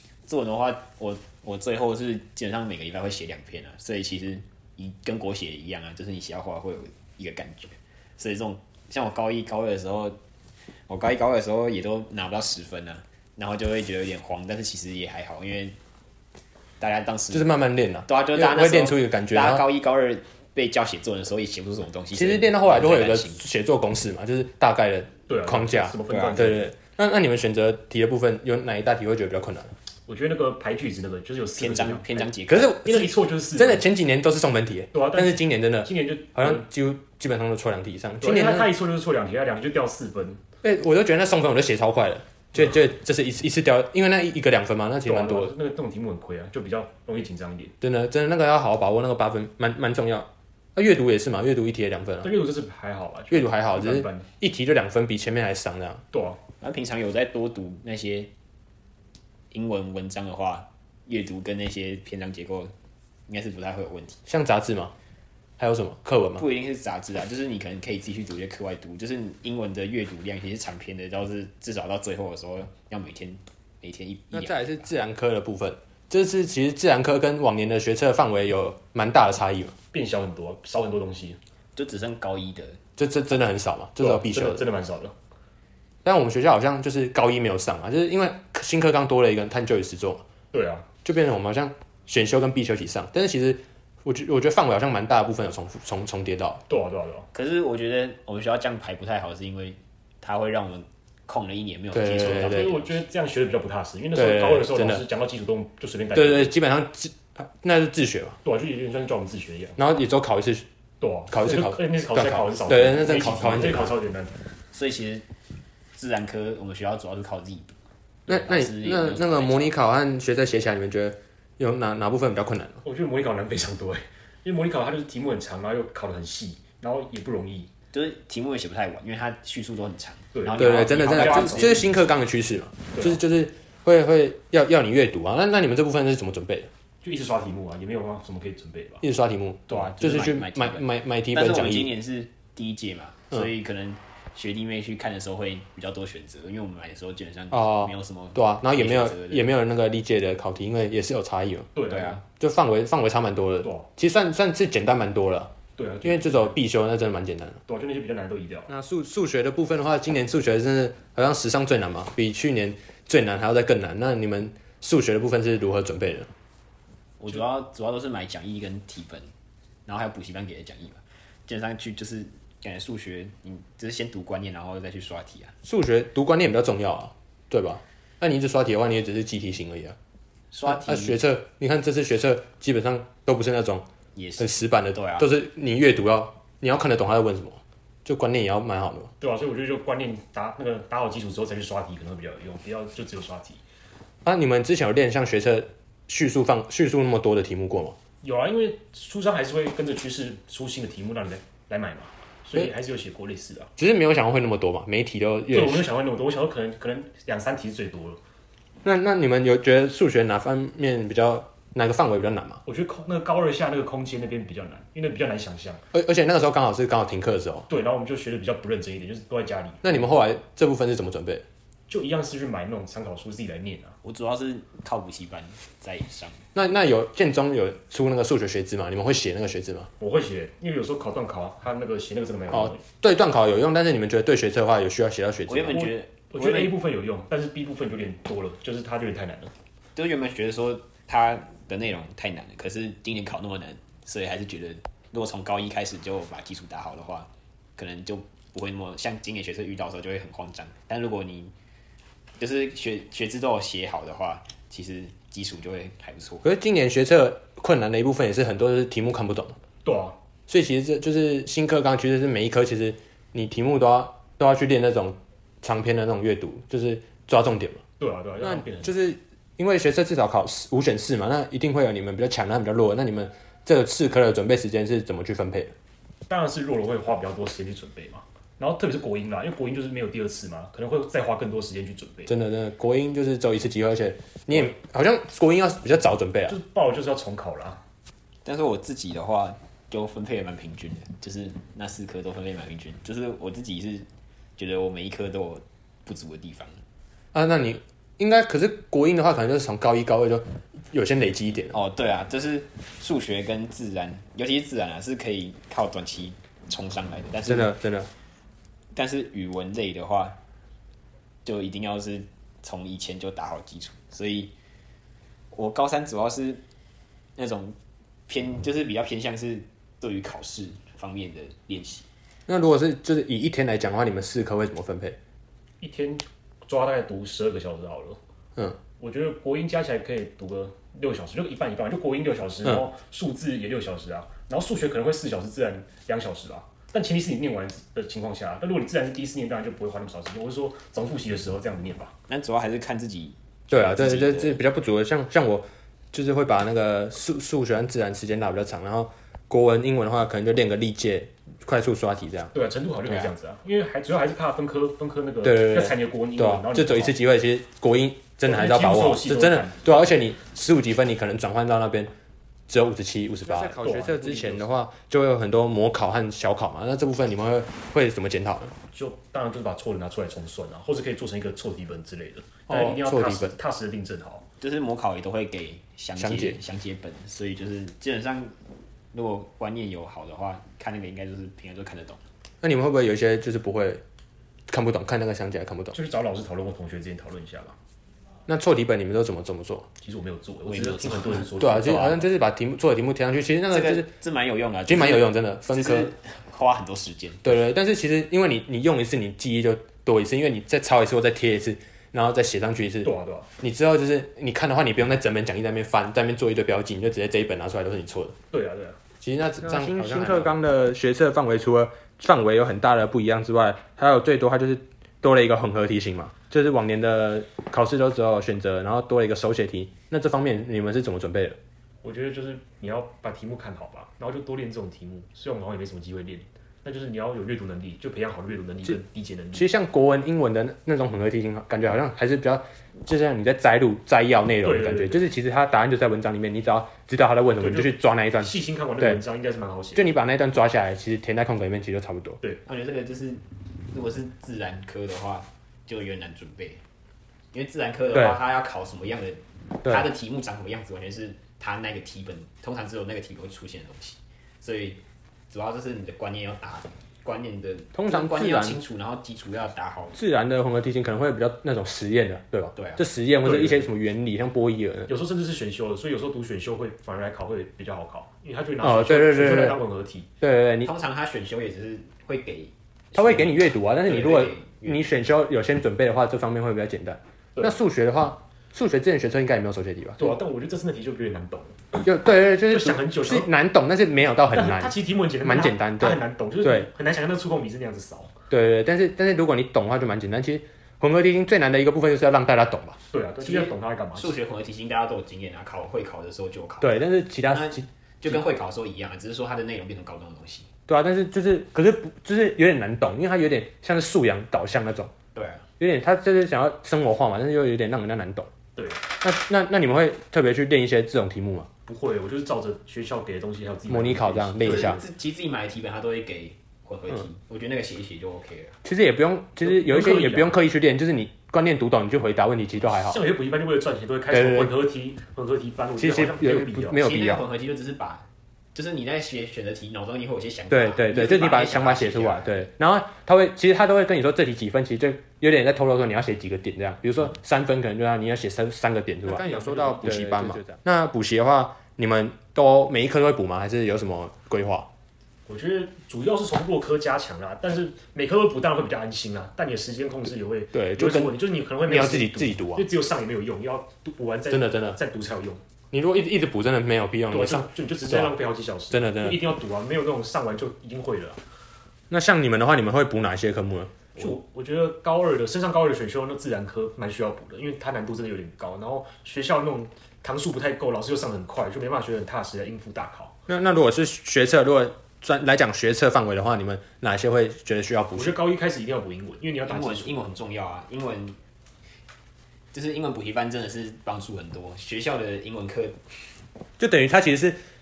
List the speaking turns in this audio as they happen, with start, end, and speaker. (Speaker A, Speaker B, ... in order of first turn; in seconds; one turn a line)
Speaker A: 0.3-10.2
Speaker A: 10.9-15.8
Speaker A: 16.8-17.5
Speaker B: 17.3-19.6
Speaker A: 18.1-23.4
Speaker B: 22.1-29.7
Speaker C: 25.3-26.7
Speaker A: 26.1-26.5
Speaker C: 30.1-32.3
Speaker A: 31.6-32.8
Speaker B: 32.5-38.7
Speaker C: 32.8-33.9
Speaker C: 34.9-36.6
Speaker C: 38.2-40.4
Speaker B: 40.6-45.5
Speaker C: 45.0-47.7
Speaker B: 47.8-52.3
Speaker C: 52.2-54.3
Speaker B: 53.3-56.0
Speaker C: 56.1-56.4
Speaker A: 56.6-58.3
Speaker A: 59.5-62.7
Speaker A: 63.3-64.2
Speaker B: 64.3-64.9
Speaker B: 65.6-66.5
Speaker A: 66.4-74.9
Speaker B: 74.3-79.8
Speaker C: 79.9-81.4
Speaker A: 81.8-82.8
Speaker B: 83.0-84.7
Speaker C: 84.0-85.1
Speaker B: 86.0-90.2
Speaker C: 90.5-90.9
Speaker B: 91.0-96.6
Speaker C: 96.7-97.3
Speaker A: 97.3-103.0
Speaker B: 101.9-102.7
Speaker C: 102.2-106.5
Speaker B: 104.1-105.0
Speaker B: 106.2-108.4
Speaker C: 108.4-109.8
Speaker B: 109.8-110.7
Speaker C: 111.0-114.3
Speaker B: 111.3-114.0
Speaker A: 114.7-115.3
Speaker A: 116.0-119.7
Speaker B: 118.3-122.8
Speaker C: 122.8-127.7
Speaker A: 127.9-131.9
Speaker C: 130.3-132.0
Speaker B: 130.6-136.7
Speaker C: 132.9-133.2
Speaker C: 137.0-139.0
Speaker B: 139.0-141.9
Speaker C: 139.7-140.0
Speaker A: 139.7-149.5
Speaker B: 147.5-151.7
Speaker C: 151.8-152.2
Speaker A: 151.9-152.2
Speaker B: 152.3-155.5
Speaker C: 153.6-153.9
Speaker C: 155.8-156.6
Speaker B: 156.0-157.6
Speaker C: 157.7-158.7
Speaker B: 158.7-166.3
Speaker A: 167.2-169.3
Speaker A: 169.9-175.6
Speaker B: 175.6-180.0
Speaker A: 180.5-181.2
Speaker B: 180.7-183.9
Speaker A: 184.2-185.3
Speaker B: 184.4-189.1
Speaker C: 189.2-193.6
Speaker B: 194.2-198.0
Speaker C: 198.2-203.7
Speaker B: 203.8-205.9
Speaker C: 205.5-208.2
Speaker B: 208.8-212.6
Speaker C: 212.7-215.8
Speaker B: 215.9-217.7
Speaker C: 217.7-220.0
Speaker B: 219.8-221.4
Speaker C: 221.9-224.0
Speaker A: 224.0-226.4
Speaker B: 226.6-229.9
Speaker C: 230.0-232.8
Speaker B: 232.5-235.9
Speaker A: 235.5-236.8
Speaker C: 236.3-239.5
Speaker A: 239.9-251.5
Speaker A: 252.4-256.4
Speaker B: 256.4-259.6
Speaker C: 259.8-260.2
Speaker B: 260.5-267.8
Speaker C: 268.0-268.9
Speaker B: 268.4-275.7
Speaker C: 276.3-282.3
Speaker B: 282.3-286.6
Speaker C: 286.5-287.8
Speaker A: 288.4-296.8
Speaker B: 297.3-301.8
Speaker A: 301.7-307.7
Speaker B: 307.5-308.1
Speaker A: 308.9-310.4
Speaker A: 311.4-314.5
Speaker A: 315.5-316.6
Speaker A: 317.4-317.8
Speaker A: 318.3-322.1
Speaker B: 322.5-325.2
Speaker C: 325.8-328.2
Speaker C: 329.0-342.1
Speaker A: 342.3-344.6
Speaker B: 343.7-352.5
Speaker C: 352.5-357.1
Speaker B: 355.4-362.1
Speaker C: 358.4-359.9
Speaker B: 362.7-368.8
Speaker C: 363.4-364.6
Speaker C: 368.9-374.4
Speaker B: 372.7-373.6
Speaker A: 374.6-378.6
Speaker B: 376.2-376.6
Speaker A: 379.1-382.2
Speaker B: 382.6-384.0
Speaker B: 384.7-385.9
Speaker C: 385.9-387.8
Speaker B: 388.5-389.9
Speaker C: 390.0-392.2
Speaker A: 390.7-391.5
Speaker B: 391.6-394.1
Speaker A: 393.7-397.6
Speaker B: 394.9-396.1
Speaker B: 397.4-408.4
Speaker C: 403.0-403.5
Speaker C: 408.5-409.0
Speaker B: 409.2-421.6
Speaker C: 409.6-410.5
Speaker C: 422.0-429.7
Speaker B: 429.5-439.2
Speaker C: 434.6-435.2
Speaker C: 437.6-440.1
Speaker B: 439.9-442.4
Speaker A: 442.7-446.8
Speaker A: 447.5-460.2
Speaker B: 448.1-448.4
Speaker B: 457.9-458.8
Speaker B: 460.1-465.1
Speaker A: 462.8-463.0
Speaker C: 463.4-463.9
Speaker C: 465.1-470.3
Speaker B: 468.8-469.8
Speaker B: 470.4-470.9
Speaker A: 470.8-475.0
Speaker B: 473.1-480.4
Speaker C: 480.2-481.9
Speaker B: 481.9-486.9
Speaker C: 482.7-483.5
Speaker C: 484.5-488.3
Speaker B: 488.5-493.0
Speaker C: 493.1-494.4
Speaker A: 493.4-500.7
Speaker B: 496.8-498.4
Speaker B: 500.9-505.1
Speaker A: 505.4-505.7
Speaker B: 505.8-508.5
Speaker C: 508.8-509.0
Speaker B: 509.2-511.7
Speaker C: 511.9-515.0
Speaker B: 513.9-515.0
Speaker A: 514.6-518.8
Speaker B: 518.8-523.2
Speaker C: 519.6-520.6
Speaker C: 522.8-527.0
Speaker B: 524.3-524.8
Speaker B: 526.0-527.5
Speaker A: 526.9-532.6
Speaker B: 530.7-544.9
Speaker C: 539.2-540.7
Speaker C: 545.5-555.6
Speaker B: 550.7-552.9
Speaker B: 554.5-555.0
Speaker B: 555.9-558.3
Speaker C: 557.3-561.4
Speaker B: 558.9-559.5
Speaker B: 562.1-564.0
Speaker C: 564.1-573.4
Speaker B: 573.5-578.4
Speaker C: 578.1-580.2
Speaker A: 579.7-581.4
Speaker A: 582.7-586.0
Speaker B: 586.8-587.6